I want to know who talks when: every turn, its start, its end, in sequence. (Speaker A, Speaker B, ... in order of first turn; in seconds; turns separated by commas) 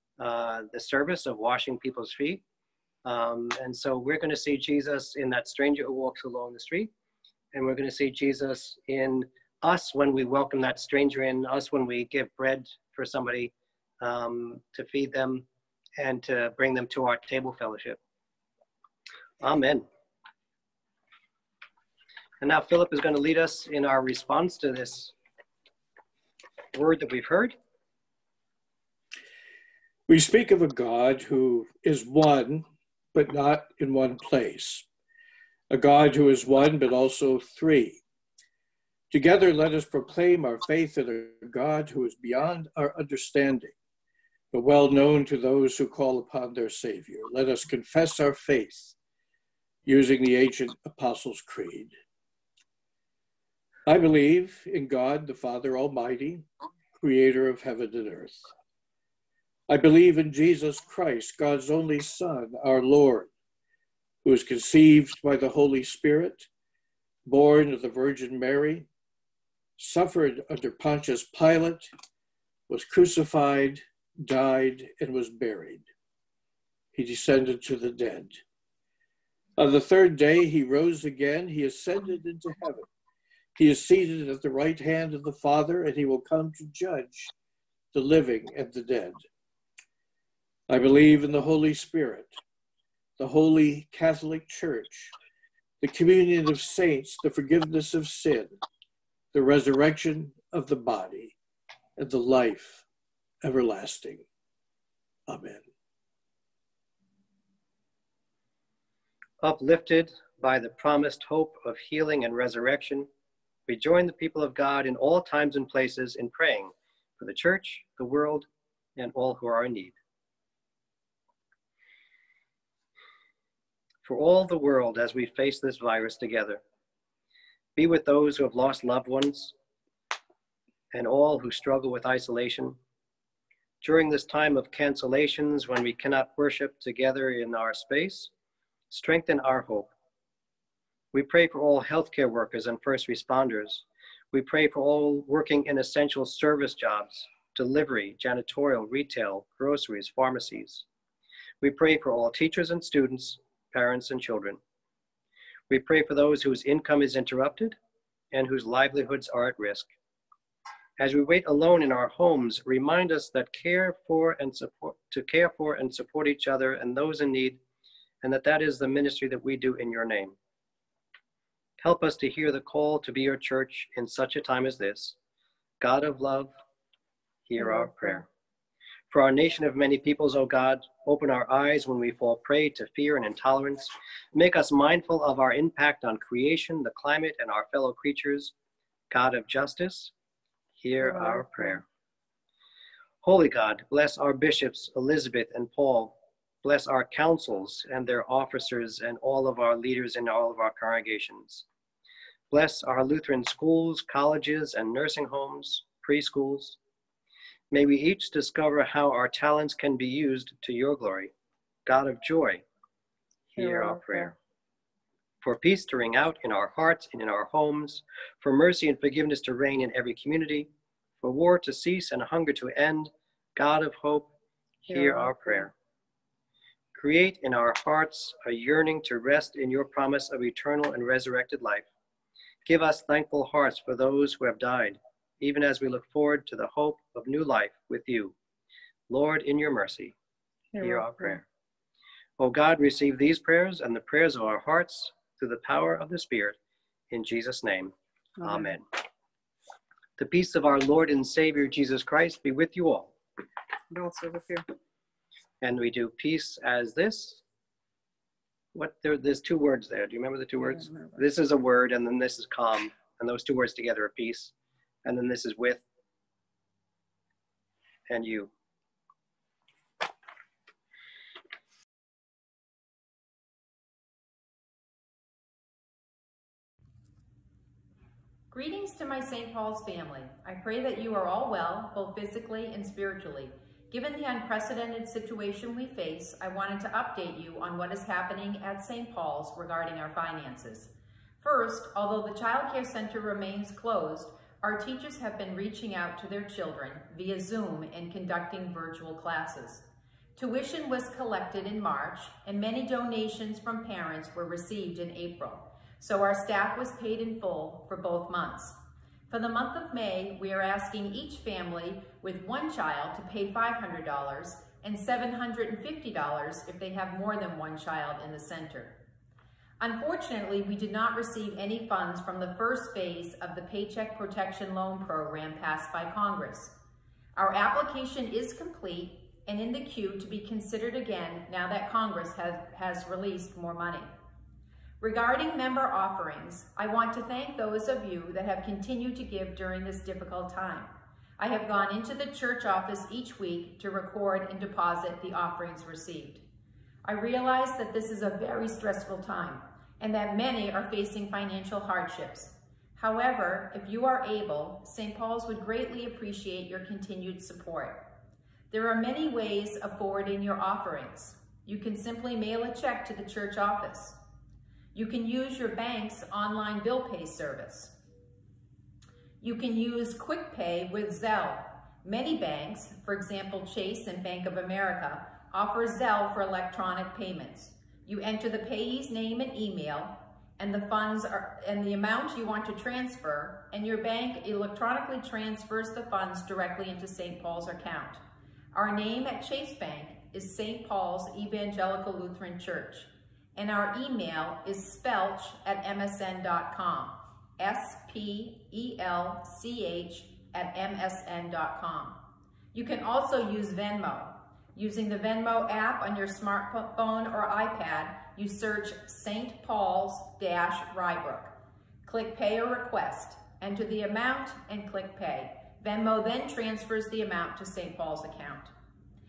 Speaker A: 0.2-2.4, Speaker A: 3.0-6.9, Speaker A: 7.5-15.5, Speaker A: 16.0-18.0, Speaker A: 19.4-19.9, Speaker A: 22.4-25.1, Speaker A: 26.7-27.6, Speaker B: 30.1-34.9, Speaker B: 35.7-38.0, Speaker B: 39.1-43.8, Speaker B: 44.5-48.9, Speaker B: 49.9-51.9, Speaker B: 53.9-56.5, Speaker B: 57.0-58.5, Speaker B: 59.7-63.3, Speaker B: 64.2-66.5, Speaker B: 67.3-68.9, Speaker B: 69.8-71.9, Speaker B: 72.7-75.8, Speaker B: 76.9-78.4, Speaker B: 79.6-82.9, Speaker B: 83.6-87.3, Speaker B: 87.9-89.2, Speaker B: 90.7-92.4, Speaker B: 93.2-95.1, Speaker B: 95.8-98.5, Speaker B: 99.3-101.4, Speaker B: 102.0-102.8, Speaker B: 103.4-104.2, Speaker B: 105.3-105.6, Speaker A: 109.4-113.1, Speaker A: 113.7-120.0, Speaker A: 124.0-126.6, Speaker A: 127.8-129.6, Speaker A: 130.9-132.8, Speaker A: 133.8-138.3, Speaker A: 138.9-139.9, Speaker A: 141.1-150.8, Speaker A: 151.6-154.6, Speaker A: 155.7-157.8, Speaker A: 158.3-159.9, Speaker A: 161.0-167.6, Speaker A: 168.2-170.4, Speaker A: 171.8-175.2, Speaker A: 175.8-176.5, Speaker A: 177.5-178.3, Speaker C: 177.6-178.2, Speaker A: 179.1-188.5, Speaker A: 189.1-190.1, Speaker A: 190.8-191.8, Speaker C: 191.0-191.8, Speaker A: 193.2-201.7, Speaker A: 202.5-206.8, Speaker A: 207.7-211.3, Speaker A: 211.9-212.6, Speaker A: 213.5-214.4, Speaker C: 213.6-214.3, Speaker A: 215.4-220.7, Speaker A: 221.2-224.3, Speaker C: 224.9-225.7, Speaker A: 224.9-225.7, Speaker A: 226.9-231.9, Speaker A: 232.7-238.3, Speaker A: 239.1-240.2, Speaker C: 240.7-241.4, Speaker A: 240.8-241.4, Speaker A: 242.4-246.6, Speaker A: 247.1-248.8, Speaker C: 248.4-248.8, Speaker A: 250.2-253.1, Speaker C: 253.9-254.7, Speaker A: 255.6-257.4, Speaker A: 258.7-264.5, Speaker C: 260.6-261.2, Speaker A: 265.1-265.8, Speaker A: 268.1-268.5, Speaker D: 278.5-308.8, Speaker D: 309.3-319.0, Speaker D: 319.8-326.7, Speaker D: 327.4-334.1, Speaker D: 335.0-346.4, Speaker D: 347.0-358.0, Speaker D: 358.7-364.2, Speaker D: 364.9-367.9, Speaker D: 369.4-388.2, Speaker D: 388.7-402.2, Speaker D: 402.7-418.7